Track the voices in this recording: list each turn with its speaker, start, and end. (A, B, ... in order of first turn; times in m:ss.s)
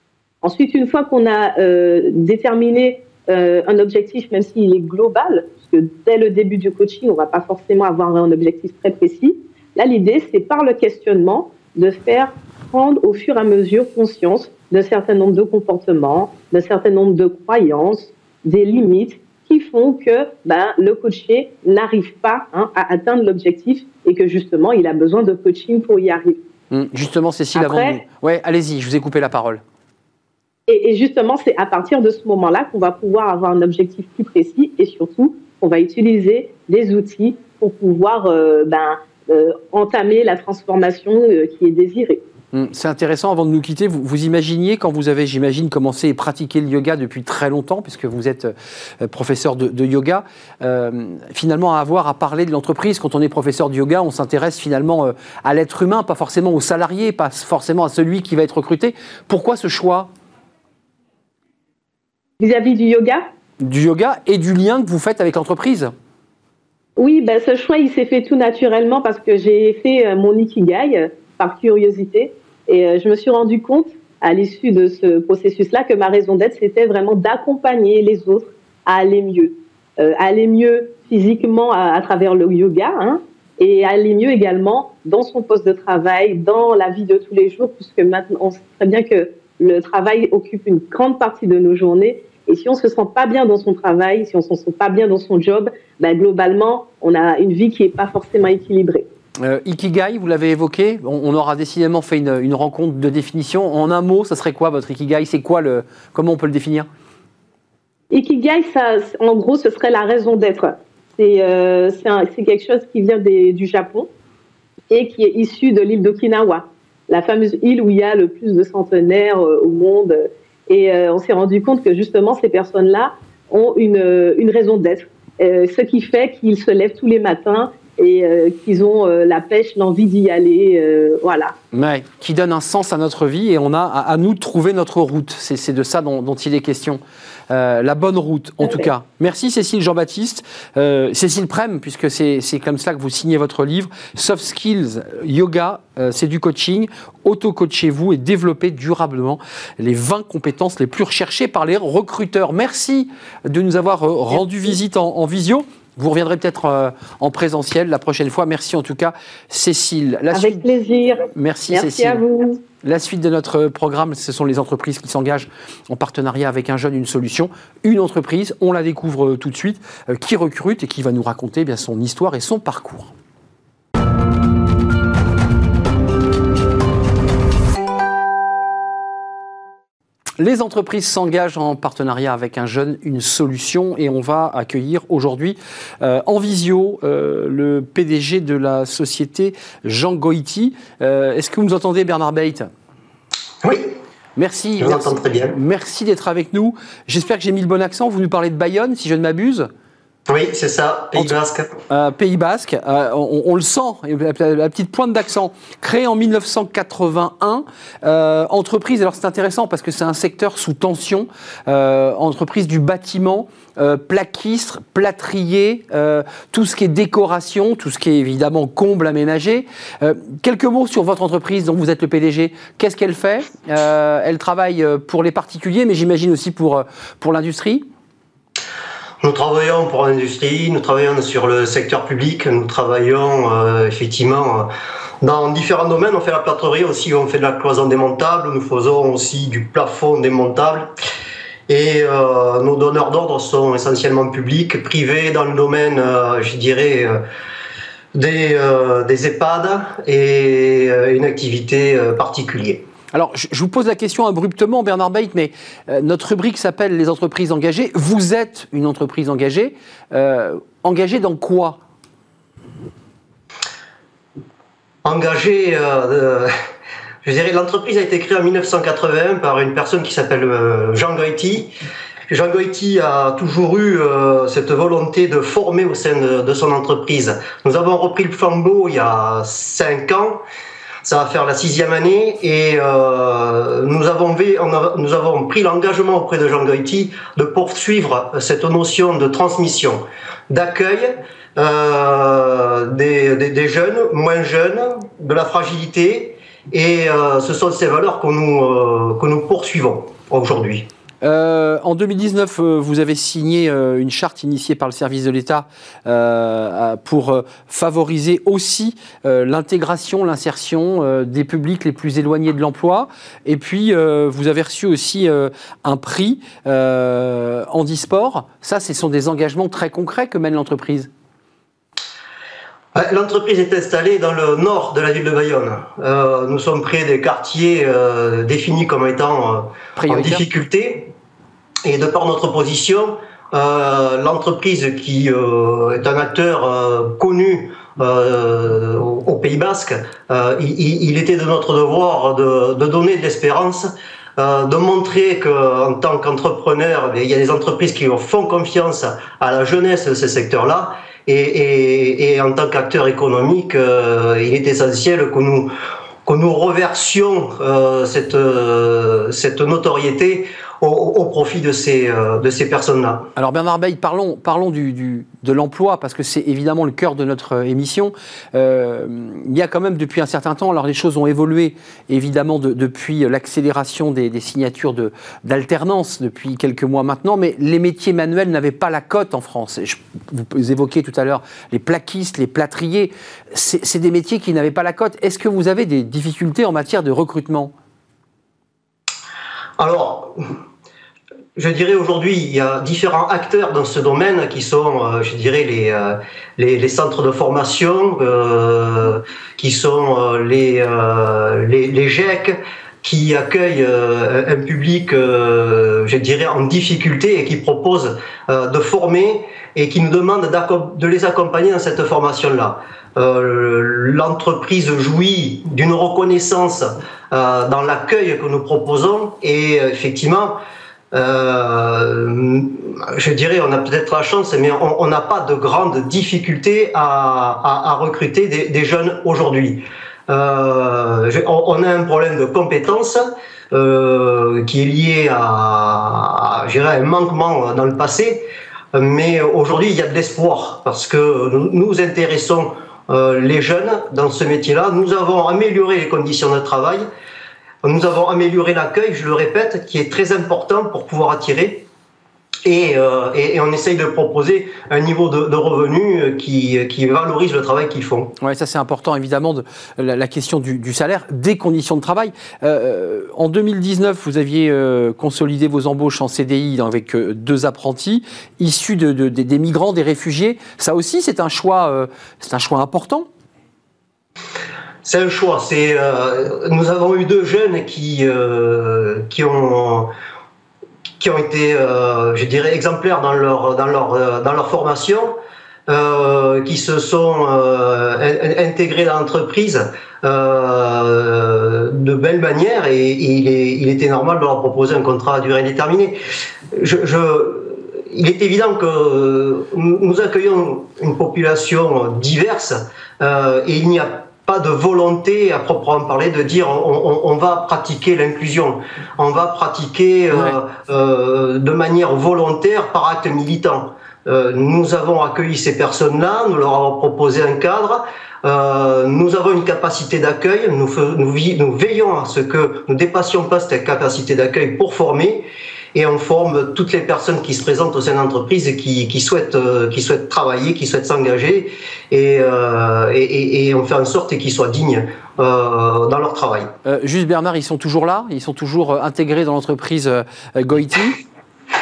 0:00.4-0:26.4 A
0:26.7-0:29.6 B
0:27.5-0:28.0 A
0:30.7-0:42.2 A
0:42.5-1:00.1 B
1:02.4-1:03.2 A
1:03.6-1:05.9 B
1:07.0-1:39.0 A
1:39.4-1:46.9 B
1:48.1-1:54.1 A
1:54.9-2:11.5 A
2:11.7-2:40.6 B
2:40.3-2:42.6 A
2:41.3-2:42.2 B
2:42.8-2:53.1 B
3:00.4-3:12.7 B
3:13.6-3:13.9 C
3:14.4-3:19.7 B
3:14.8-3:15.6 C
3:20.3-3:21.7 C
3:21.9-3:47.8 B
3:49.2-3:54.7 C
3:55.2-4:00.9 C
4:01.7-4:07.2 C
4:08.1-4:12.8 C
4:13.1-4:21.8 B
4:25.0-4:26.5 C
4:27.2-4:31.7 C
4:32.3-4:40.4 C
4:41.0-5:00.9 C
5:01.2-5:21.1 B
5:22.9-5:31.1 C
5:30.0-5:30.4 B
5:31.8-5:55.7 C
5:56.2-6:03.3 C
6:03.4-6:27.7 B
6:29.8-6:30.4 C
6:31.6-7:00.6 C
7:01.1-7:27.0 C
7:27.8-7:31.8 C
7:32.6-7:38.3 C
7:38.4-7:53.3 B
7:55.0-8:00.1 C
8:01.2-8:16.2 C
8:16.7-8:56.7 C
8:56.8-9:01.2 B